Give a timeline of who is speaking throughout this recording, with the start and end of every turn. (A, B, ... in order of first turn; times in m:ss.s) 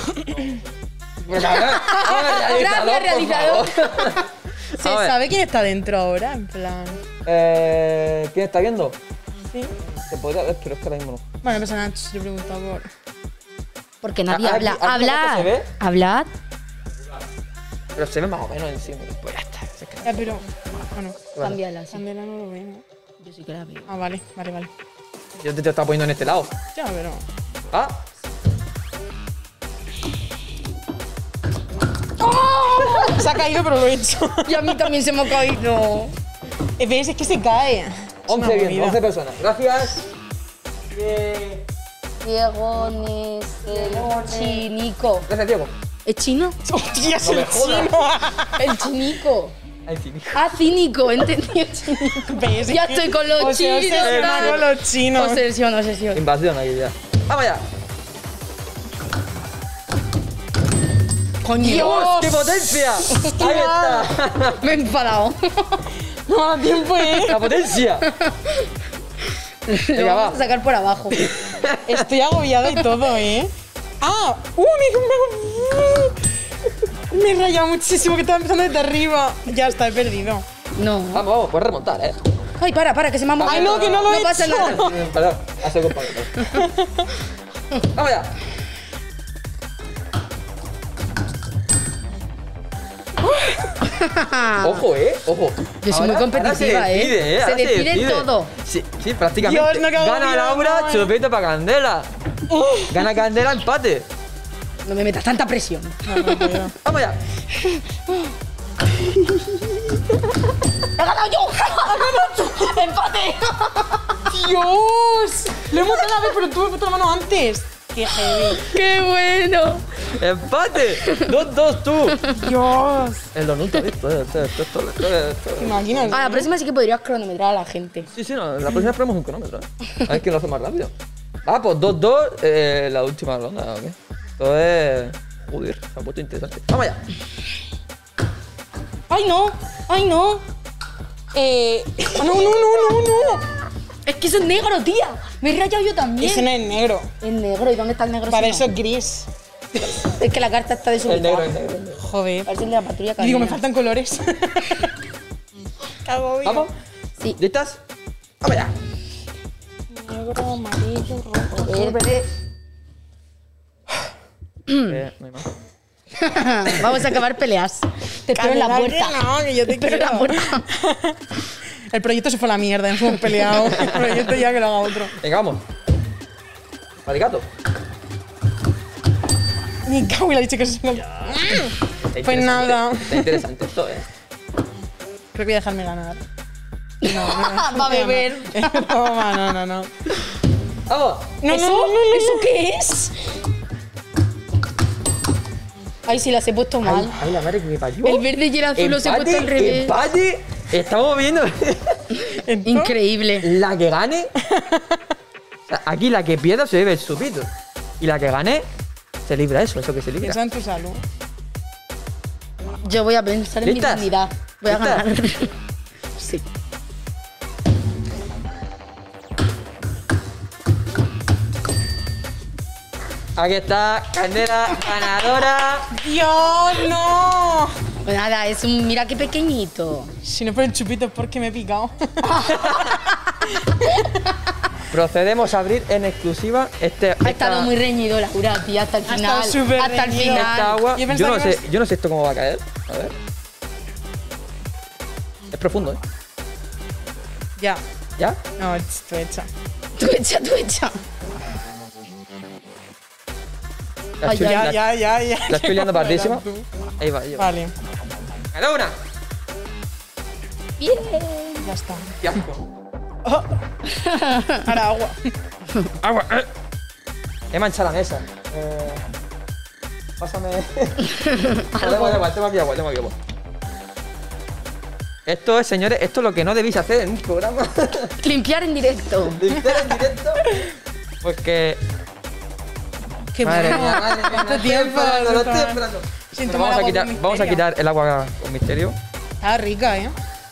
0:00.1-0:00.4 A
0:01.2-0:05.2 B
0:01.4-0:04.2 C
0:04.8-0:07.0 A
0:07.2-0:09.0 B
0:09.5-0:10.0 A
0:10.1-0:11.2 B
0:11.4-0:12.9 A
0:14.0-0:16.3 C
0:14.3-0:15.7 B
0:18.0-0:20.4 B
0:20.0-0:21.3 A
0:21.3-0:21.6 B
0:21.4-0:22.0 C
0:21.9-0:22.8 A
0:23.2-0:23.9 C
0:23.9-0:24.7 A
0:25.4-0:26.6 B
0:26.8-0:27.2 A
0:27.7-0:28.0 B
0:32.2-0:34.9 A
0:32.7-0:33.1 C
0:34.5-0:36.1 C
0:36.8-0:39.0 A
0:38.3-0:40.1 B
0:40.9-0:41.6 B
0:42.2-0:45.3 C
0:43.7-0:44.7 B
0:45.3-0:45.7 B
0:46.1-0:46.6 C
0:46.7-0:48.7 A
0:47.2-0:48.0 B
0:48.6-0:49.6 C
0:49.9-0:50.4 B
0:50.3-0:56.2 C
0:52.1-0:55.4 A
0:54.0-0:54.7 B
0:56.1-0:57.6 B
1:01.4-1:02.0 C
1:01.6-1:04.2 A
1:01.7-1:04.6 B
1:03.0-1:03.4 C
1:04.6-1:05.9 C
1:06.3-1:07.4 A
1:07.3-1:08.1 B
1:08.0-1:08.7 C
1:09.6-1:11.4 C
1:10.0-1:10.4 B
1:11.1-1:12.1 B
1:11.8-1:16.2 A
1:17.1-1:20.4 A
1:20.8-1:21.3 C
1:21.1-1:22.2 B
1:22.6-1:24.9 C
1:23.4-1:26.5 B
1:23.4-1:24.9 A
1:26.5-1:27.1 A
1:27.8-1:28.4 B
1:33.8-1:34.8 C
1:34.6-1:42.1 B
1:35.8-1:38.5 C
1:39.4-1:41.1 A
1:42.5-1:42.9 A
1:42.9-1:44.1 B
1:44.8-1:46.7 C
1:46.1-1:46.8 A
1:46.8-1:47.2 B
1:47.5-1:48.3 C
1:51.0-1:54.2 C
1:51.8-1:52.7 A
1:54.2-1:58.7 A
1:58.2-2:00.0 C
2:00.0-2:02.2 B
2:01.0-2:01.3 C
2:02.3-2:03.3 A
2:03.3-2:06.2 B
2:05.6-2:06.5 A
2:06.1-2:08.1 C
2:08.1-2:10.9 B
2:11.4-2:17.0 B
2:19.1-2:20.4 C
2:21.3-2:23.5 A
2:24.0-2:26.5 C
2:26.2-2:27.1 A
2:27.2-2:28.7 C
2:28.3-2:29.3 A
2:29.9-2:31.6 C
2:31.0-2:32.0 B
2:32.0-2:32.5 A
2:32.4-2:33.6 C
2:33.2-2:35.0 A
2:36.0-2:36.7 A
2:36.4-2:36.7 B
2:37.4-2:37.8 B
2:38.4-2:38.8 B
2:39.9-2:42.1 A
2:41.6-2:42.3 C
2:44.7-2:45.0 C
2:44.9-2:45.5 B
2:46.2-2:50.7 C
2:48.4-2:51.2 A
2:51.9-2:55.2 A
2:53.6-2:54.4 B
2:55.2-2:55.6 B
2:57.0-2:57.5 B
2:59.8-3:03.4 A
3:02.1-3:04.1 B
3:05.3-3:06.2 A
3:07.0-3:08.9 C
3:07.0-3:09.9 A
3:10.9-3:11.4 B
3:11.4-3:12.5 A
3:11.5-3:13.3 C
3:16.1-3:17.2 C
3:16.8-3:22.0 B
3:18.0-3:19.9 C
3:22.2-3:23.5 C
3:22.4-3:23.0 A
3:23.4-3:24.3 B
3:24.4-3:25.0 A
3:25.7-3:28.7 B
3:29.2-3:30.4 B
3:30.2-3:31.0 A
3:32.8-3:35.5 C
3:33.6-3:34.1 B
3:34.6-3:35.0 B
3:36.2-3:36.4 C
3:43.4-3:45.9 B
3:45.9-3:47.8 A
3:48.0-3:50.1 C
3:50.2-3:52.7 A
3:52.2-3:53.1 C
3:52.6-3:52.9 B
3:53.4-3:54.1 A
3:53.8-3:54.2 C
3:54.9-3:57.7 B
3:57.2-4:00.8 C
3:59.1-4:01.6 A
4:00.3-4:03.2 B
4:05.5-4:06.0 B
4:08.6-4:09.5 A
4:10.0-4:11.0 C
4:14.2-4:14.8 B
4:14.2-4:14.7 C
4:14.3-4:16.7 A
4:15.5-4:16.4 B
4:17.0-4:17.5 B
4:17.4-4:17.7 A
4:18.5-4:19.0 B
4:20.8-4:21.7 C
4:21.6-4:22.2 A
4:22.2-4:22.7 B
4:23.9-4:24.6 C
4:24.6-4:25.3 A
4:26.0-4:26.5 B
4:27.5-4:29.1 B
4:30.2-4:31.1 B
4:31.0-4:32.3 C
4:31.7-4:33.2 B
4:35.3-4:38.2 B
4:38.2-4:39.5 C
4:39.3-4:40.7 B
4:41.2-4:41.8 B
4:43.3-4:47.6 A
4:43.4-4:49.0 B
4:49.4-4:50.2 A